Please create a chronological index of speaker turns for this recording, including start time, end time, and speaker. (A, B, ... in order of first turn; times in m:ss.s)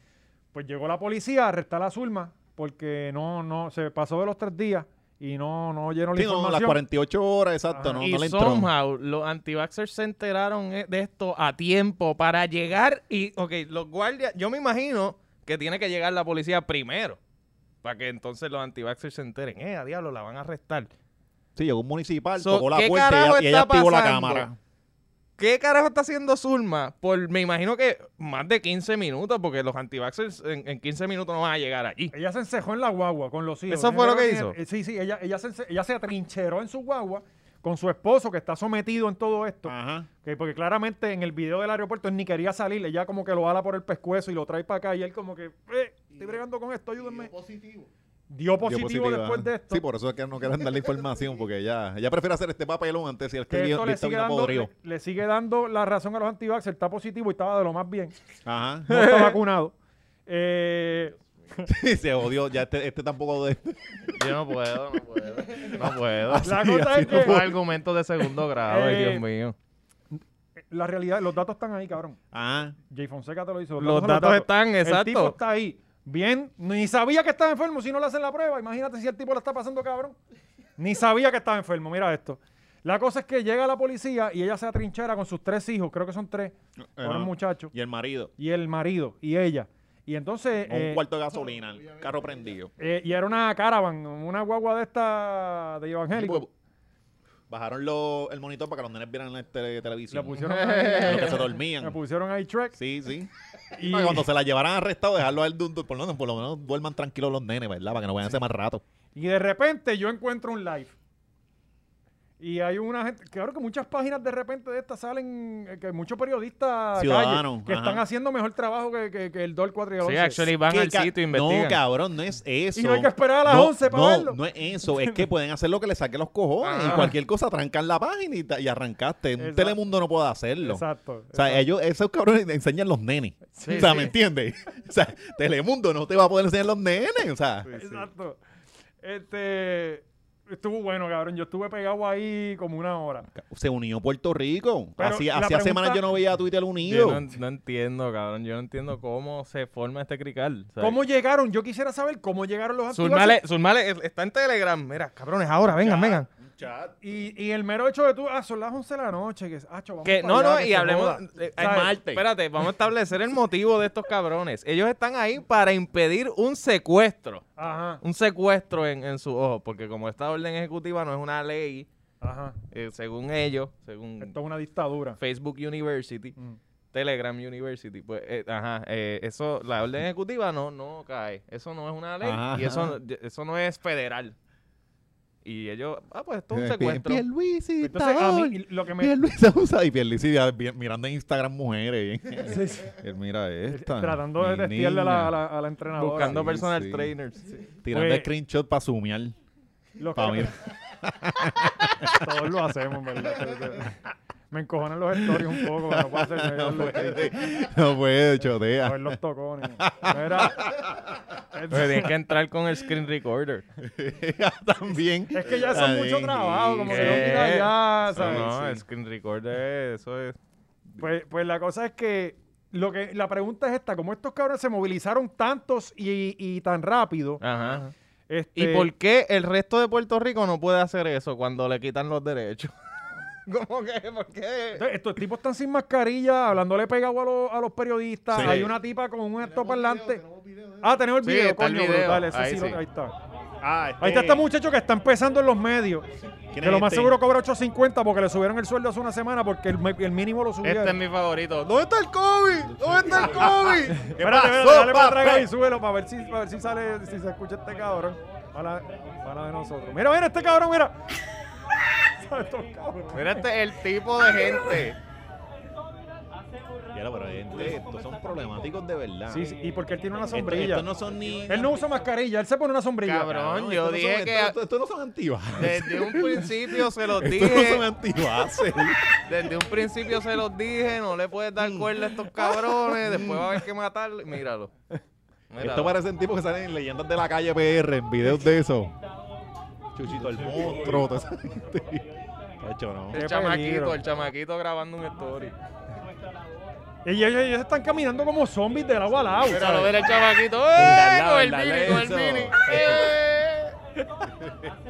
0:00.5-0:06.8 A
0:06.1-0:08.7 B
0:07.7-0:08.0 A
0:08.0-0:17.2 C
0:17.8-0:20.9 C
0:21.6-0:24.6 B
0:22.4-0:24.5 C
0:25.4-0:32.1 C
0:32.1-0:47.3 A
0:33.7-0:34.6 C
0:39.6-0:40.1 B
0:46.1-0:46.4 D
0:47.0-0:47.9 D
0:48.3-0:49.8 A
0:48.6-0:54.7 B
0:50.8-0:51.3 D
0:53.5-0:58.1 A
0:58.4-0:59.0 B
0:58.9-0:59.7 A
0:59.1-0:59.3 C
1:00.3-1:01.7 A
1:01.6-1:04.2 B
1:04.1-1:06.5 C
1:06.2-1:07.6 B
1:06.4-1:07.4 A
1:07.0-1:09.5 C
1:08.6-1:09.2 A
1:10.7-1:12.2 A
1:12.3-1:12.8 B
1:12.9-1:20.2 A
1:13.8-1:15.4 C
1:20.8-1:27.7 A
1:27.0-1:28.3 B
1:28.4-1:31.0 A
1:30.7-1:32.7 B
1:31.3-1:32.6 D
1:32.8-1:36.4 A
1:36.1-1:36.5 B
1:37.5-1:42.0 B
1:40.1-1:42.8 A
1:40.4-1:41.4 C
1:42.7-1:48.8 B
1:43.7-1:44.2 A
1:49.1-1:50.9 A
1:52.4-2:00.5 A
1:56.9-1:58.0 B
2:00.0-2:01.8 C
2:00.7-2:17.8 B
2:02.7-2:04.4 A
2:06.6-2:07.1 C
2:09.4-2:09.8 A
2:10.6-2:11.6 A
2:13.6-2:14.1 A
2:13.6-2:14.1 C
2:17.7-2:18.4 A
2:19.0-2:23.3 A
2:23.3-2:27.2 B
2:25.0-2:26.0 A
2:26.8-2:31.0 C
2:30.8-2:33.4 A
2:32.9-2:36.3 C
2:35.8-2:37.0 B
2:37.0-2:41.9 A
2:40.0-2:47.4 C
2:41.6-2:42.2 B
2:47.6-2:48.0 A
2:48.0-2:51.9 C
2:52.2-2:52.6 A
2:52.7-2:54.3 C
2:54.2-2:55.2 A
2:55.2-2:56.3 C
2:56.9-3:04.3 C
3:02.2-3:03.0 B
3:05.4-3:07.2 C
3:06.5-3:15.4 B
3:07.8-3:09.2 A
3:12.4-3:12.9 A
3:13.7-3:16.4 A
3:16.0-3:17.5 C
3:16.2-3:17.1 B
3:17.8-3:19.3 B
3:17.9-3:18.3 A
3:20.0-3:20.6 A
3:20.1-3:22.2 B
3:22.1-3:24.0 A
3:24.5-3:27.3 A
3:25.7-3:29.2 B
3:28.8-3:30.7 A
3:29.8-3:31.2 B
3:31.5-3:32.1 A
3:31.7-3:33.6 C
3:33.8-3:37.5 B
3:35.3-3:38.5 A
3:36.9-3:40.4 C
3:38.1-3:38.8 B
3:41.0-3:47.4 A
3:47.4-3:47.9 C
3:48.3-3:48.9 A
3:48.6-3:52.7 C
3:53.4-3:54.8 C
3:54.8-4:00.2 A
3:58.3-3:58.7 B
3:59.4-4:01.1 D
4:00.8-4:03.1 A
4:01.2-4:02.8 C
4:03.6-4:04.4 B
4:04.0-4:06.1 A
4:06.5-4:07.2 B
4:06.6-4:11.0 A
4:10.6-4:14.0 C
4:13.0-4:15.5 B
4:14.0-4:21.1 A
4:22.0-4:23.5 A
4:23.1-4:25.0 C
4:26.9-4:29.5 B
4:29.3-4:30.9 A
4:30.3-4:31.8 B
4:31.5-4:33.4 A
4:33.0-4:34.6 C
4:33.3-4:39.4 B
4:35.6-4:37.8 C
4:39.2-4:44.7 C
4:41.6-4:43.6 B
4:45.5-4:45.9 C
4:45.6-4:48.9 B
4:49.9-4:52.0 B
4:52.6-4:53.2 B
4:53.1-4:55.5 C
4:53.1-4:54.0 A
4:57.0-5:00.0 A
4:59.5-5:03.7 C
5:00.7-5:03.1 B
5:04.4-5:04.7 B